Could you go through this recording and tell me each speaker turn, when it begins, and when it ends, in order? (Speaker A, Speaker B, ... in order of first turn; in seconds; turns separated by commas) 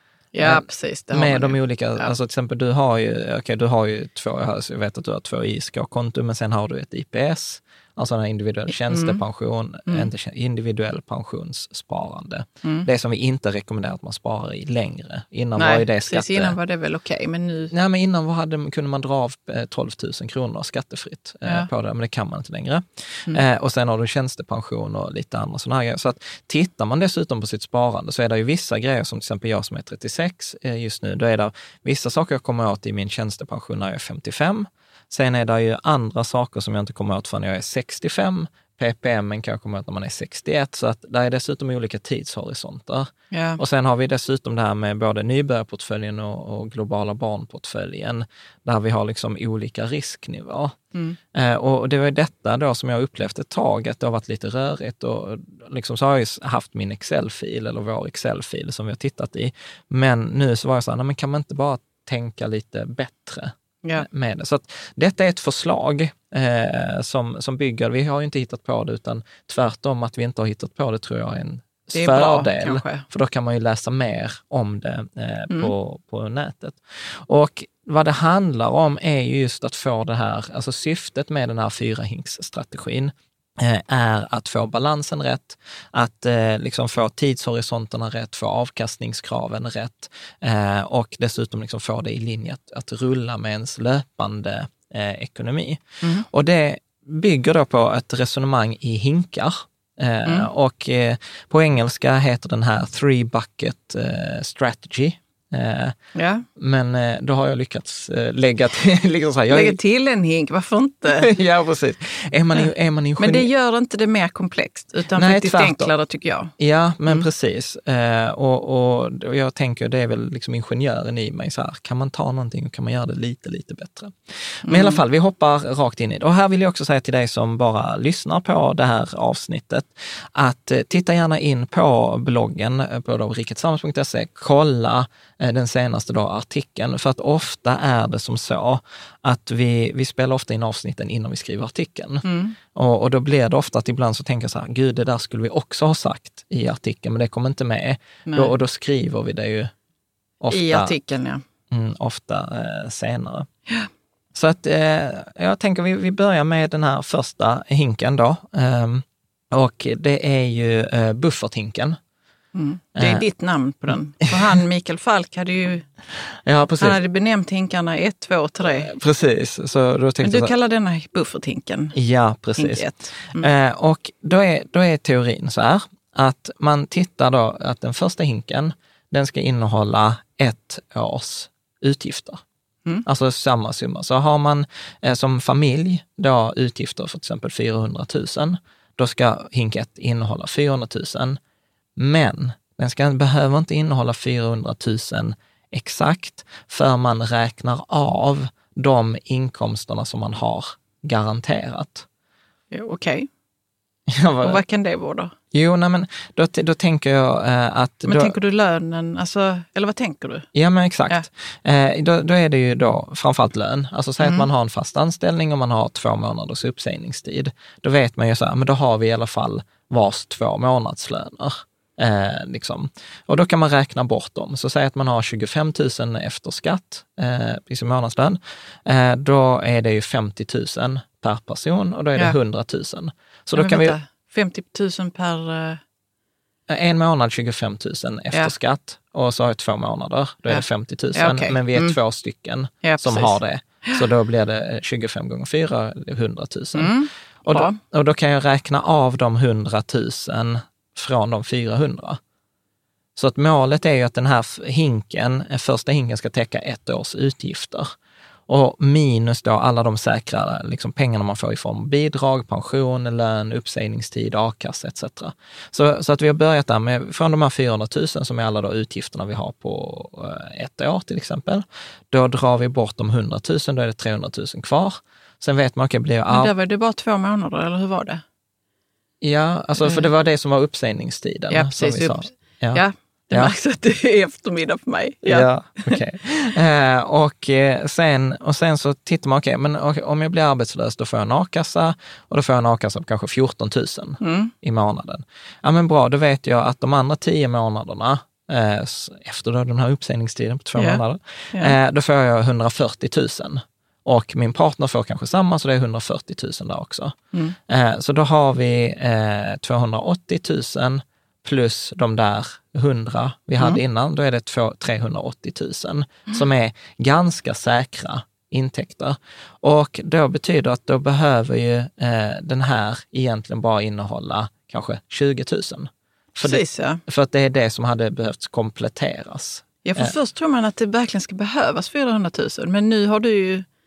Speaker A: 0.3-2.1, Speaker B: 0.4-16.6, Speaker A: 8.9-9.2, Speaker A: 15.6-17.7, Speaker B: 17.7-50.8, Speaker A: 43.3-43.6, Speaker B: 51.3-106.0, Speaker A: 71.9-73.0, Speaker A: 106.2-106.5, Speaker B: 106.6-109.8, Speaker A: 109.5-111.3, Speaker B: 111.1-113.5, Speaker A: 113.2-116.5, Speaker B: 115.1-115.9, Speaker B: 116.6-149.7, Speaker A: 124.7-125.0, Speaker A: 142.2-142.6, Speaker A: 148.3-148.5, Speaker B: 150.4-151.0, Speaker A: 150.5-151.4, Speaker B: 151.7-153.5, Speaker B: 154.3-162.0, Speaker A: 162.5-165.9, Speaker B: 163.0-163.3, Speaker B: 164.3-164.6, Speaker B: 166.5-167.0, Speaker A: 166.8-168.9, Speaker B: 168.6-170.5, Speaker A: 170.2-172.0, Speaker B: 171.9-182.4, Speaker A: 172.6-173.5, Speaker B: 183.1-191.4, Speaker B: 192.0-202.1, Speaker A: 202.7-203.3, Speaker B: 204.1-204.6, Speaker A: 204.4-205.3, Speaker B: 205.5-208.3, Speaker A: 208.1-210.5, Speaker B: 210.6-234.0, Speaker A: 214.2-214.5, Speaker A: 233.6-235.8, Speaker B: 236.7-252.2, Speaker A: 240.5-242.0, Speaker A: 242.8-244.1, Speaker A: 246.8-247.8, Speaker B: 253.2-257.9, Speaker B: 258.5-276.5, Speaker A: 276.3-278.2, Speaker B: 279.2-283.5, Speaker A: 279.8-280.1, Speaker A: 281.5-286.0, Speaker B: 285.2-307.2, Speaker A: 294.2-294.5, Speaker A: 300.8-301.0, Speaker B: 307.7-330.1, Speaker A: 326.4-327.0, Speaker A: 329.9-333.7